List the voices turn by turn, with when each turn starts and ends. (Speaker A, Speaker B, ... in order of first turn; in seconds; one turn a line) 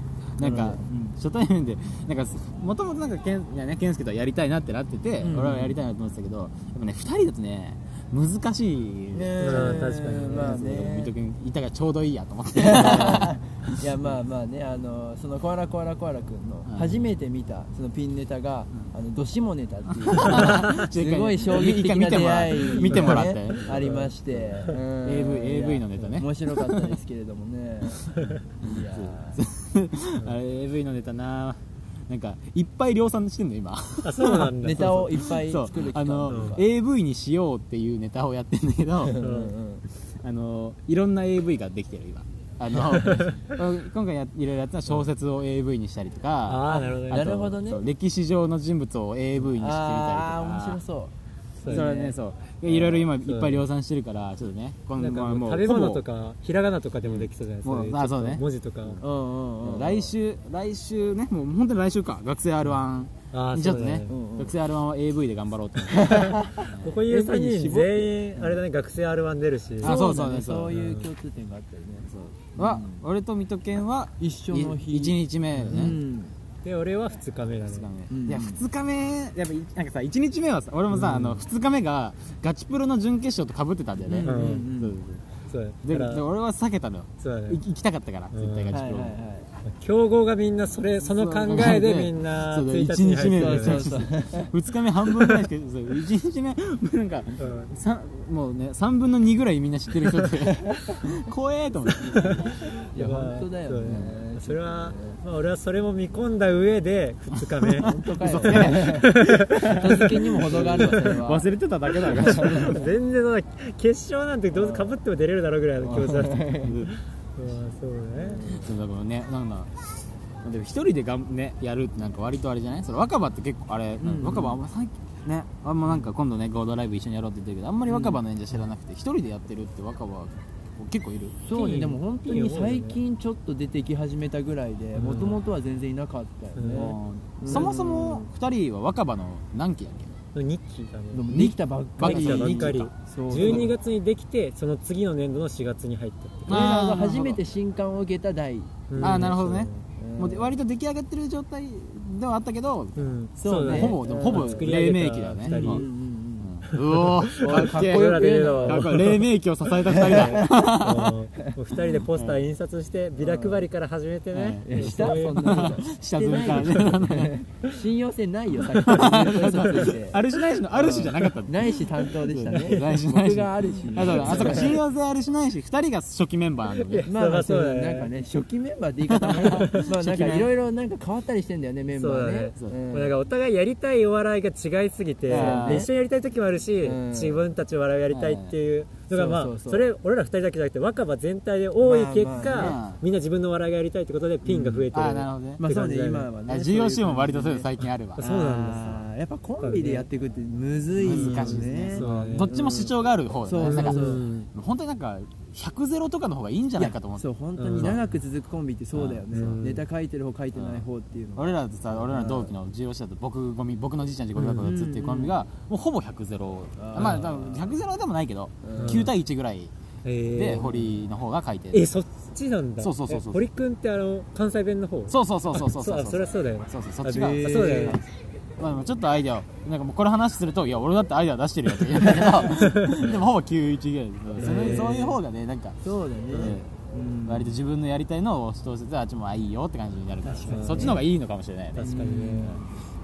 Speaker A: 0.4-14.1
Speaker B: 0.4-1.1
Speaker B: 5.2-5.8
Speaker B: 9.1-11.1
Speaker C: 9.4-10.5
Speaker B: 12.6-29.4
Speaker A: 16.6-17.0
Speaker A: 20.0-26.9
Speaker C: 22.9-23.3
Speaker A: 28.9-39.2
Speaker C: 34.0-35.1
Speaker B: 34.6-36.6
Speaker C: 36.3-36.6
Speaker B: 39.0-39.8
Speaker C: 39.2-39.5
Speaker A: 40.1-50.8
Speaker C: 43.0-43.5
Speaker C: 46.5-47.4
Speaker B: 46.7-47.8
Speaker B: 49.4-51.1
Speaker C: 51.6-51.9
Speaker B: 51.6-52.2
Speaker A: 51.7-56.0
Speaker C: 53.1-53.6
Speaker C: 55.0-59.0
Speaker A: 57.0-59.0
Speaker B: 59.0-60.1
Speaker A: 59.6-66.9
Speaker C: 63.3-64.1
Speaker B: 64.1-64.5
Speaker B: 66.0-68.5
Speaker C: 66.0-70.0
Speaker A: 69.8-71.0
Speaker B: 69.8-73.0
Speaker A: 72.1-76.0
Speaker B: 74.2-76.3
Speaker C: 76.6-77.8
Speaker A: 77.6-85.2
Speaker B: 78.1-78.6
Speaker B: 84.0-85.0
Speaker C: 84.2-84.7
Speaker C: 85.5-86.2
Speaker A: 85.8-89.2
Speaker C: 87.2-87.6
Speaker C: 88.3-88.8
Speaker B: 88.7-89.5
Speaker C: 89.7-93.9
Speaker A: 91.0-102.5
Speaker B: 93.3-94.5
Speaker C: 97.4-97.7
Speaker C: 102.1-111.1
Speaker B: 102.9-105.2
Speaker A: 103.8-104.1
Speaker B: 107.7-111.5
Speaker A: 108.2-112.8
Speaker C: 112.1-118.4
Speaker B: 112.1-112.6
Speaker B: 114.5-115.0
Speaker B: 115.8-116.8
Speaker A: 116.6-117.0
Speaker B: 118.2-118.7
Speaker A: 118.5-131.4
Speaker B: 124.0-124.6
Speaker B: 127.9-128.2
Speaker B: 131.4-138.3
Speaker C: 131.5-133.0
Speaker C: 134.9-135.4
Speaker C: 136.6-136.9
Speaker A: 136.7-140.1
Speaker C: 140.3-141.3
Speaker B: 141.1-143.7
Speaker A: 141.3-143.6
Speaker C: 142.0-146.7
Speaker A: 146.5-147.4
Speaker B: 146.5-150.5
Speaker C: 148.9-149.8
Speaker A: 149.0-155.8
Speaker C: 153.0-155.8
Speaker B: 153.4-154.7
Speaker B: 155.4-156.6
Speaker A: 156.4-161.1
Speaker B: 157.3-159.1
Speaker C: 157.3-159.2
Speaker C: 159.8-165.8
Speaker B: 159.9-160.5
Speaker A: 162.2-162.4
Speaker B: 163.2-163.7
Speaker A: 164.3-167.4
Speaker B: 164.6-170.2
Speaker A: 168.8-177.1
Speaker B: 170.7-174.8
Speaker C: 172.5-172.9
Speaker C: 173.9-174.7
Speaker C: 176.8-178.1
Speaker B: 177.1-183.1
Speaker A: 179.1-180.5
Speaker C: 179.4-179.8
Speaker C: 181.9-196.3
Speaker A: 185.3-185.9
Speaker B: 185.3-185.9
Speaker B: 186.8-187.4
Speaker A: 188.1-188.5
Speaker B: 189.1-189.8
Speaker B: 191.8-192.8
Speaker A: 192.4-193.0
Speaker B: 194.4-194.9
Speaker A: 194.9-195.6
Speaker B: 195.6-202.9
Speaker A: 196.5-198.2
Speaker C: 198.2-199.0
Speaker C: 199.6-200.1
Speaker A: 201.0-208.0
Speaker C: 201.1-202.5
Speaker B: 203.4-204.2
Speaker C: 203.6-204.5
Speaker B: 206.8-212.5
Speaker C: 207.6-208.0
Speaker A: 208.9-209.2
Speaker C: 209.3-209.8
Speaker A: 210.5-219.7
Speaker B: 214.3-215.3
Speaker B: 216.8-217.7
Speaker B: 218.6-219.1
Speaker C: 218.7-219.1
Speaker C: 220.0-220.7
Speaker A: 220.3-221.9
Speaker C: 221.7-228.0
Speaker A: 222.8-223.4
Speaker A: 225.1-235.8
Speaker B: 227.1-228.0
Speaker C: 232.4-233.1
Speaker B: 234.4-235.2
Speaker C: 234.4-235.0
Speaker B: 235.8-237.5
Speaker A: 236.3-236.7
Speaker A: 237.2-242.1
Speaker C: 240.2-241.0
Speaker B: 240.4-241.0
Speaker C: 241.8-242.6
Speaker B: 241.8-242.7